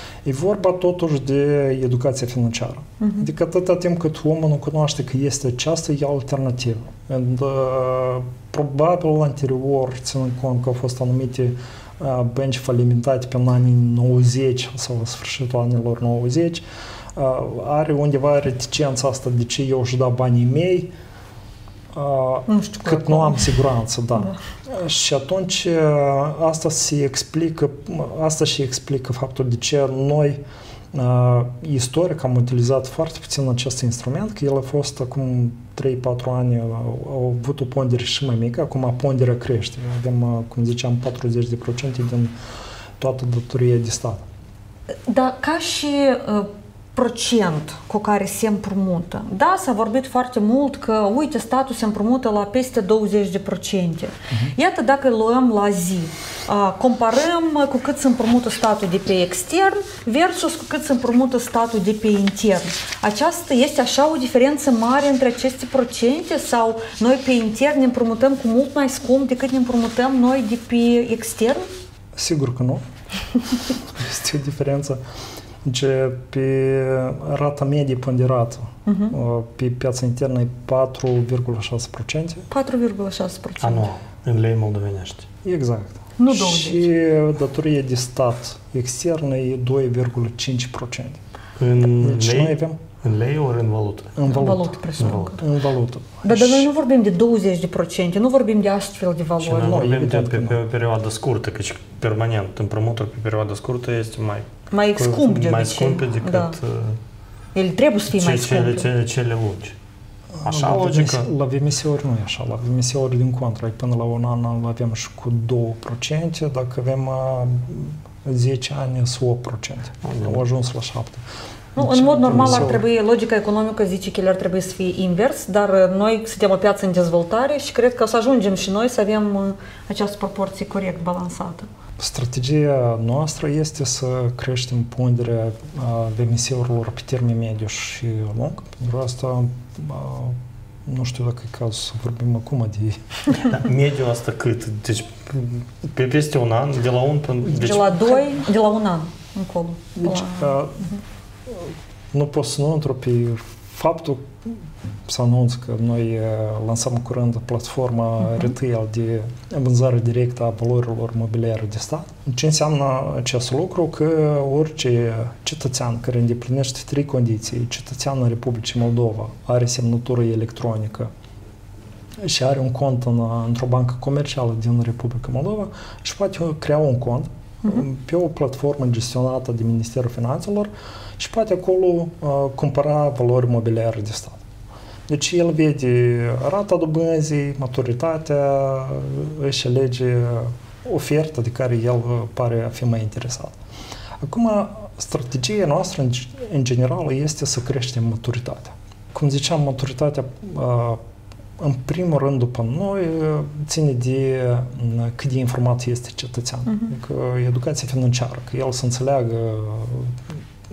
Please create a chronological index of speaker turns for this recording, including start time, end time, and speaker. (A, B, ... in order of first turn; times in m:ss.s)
0:00.2-0:16.6 A
0:03.0-0:03.2 B
0:17.1-0:20.9 A
0:21.9-0:30.4 A
0:22.5-0:23.6 B
0:30.9-0:42.3 A
0:43.0-0:44.3 A
0:45.1-1:11.7 B
1:12.2-1:12.8 A
1:13.7-1:15.0 A
1:15.6-1:22.5 A
1:18.9-1:19.2 B
1:22.5-1:23.9 B
1:23.6-1:25.3 C
1:25.4-1:31.2 A
1:26.2-1:26.8 B
1:31.6-1:34.2 C
1:31.9-1:32.8 A
1:34.2-1:36.7 A
1:34.3-1:35.4 B
1:35.0-1:35.4 C
1:36.2-1:39.8 B
1:39.4-1:47.0 C
1:39.5-1:40.6 A
1:44.7-1:46.6 B
1:47.6-1:48.9 B
1:48.1-1:49.8 C
1:50.4-2:01.2 A
1:50.4-1:51.3 C
2:00.0-2:00.4 C
2:01.8-2:11.7 B
2:01.8-2:02.8 A
2:02.3-2:02.7 C
2:12.0-2:23.4 A
2:23.3-2:28.1 C
2:27.5-2:31.0 B
2:30.0-2:30.9 A
2:31.5-2:51.1 A
2:52.2-3:04.4 A
3:05.1-3:13.6 A
3:14.2-3:21.0 A
3:21.6-3:30.2 A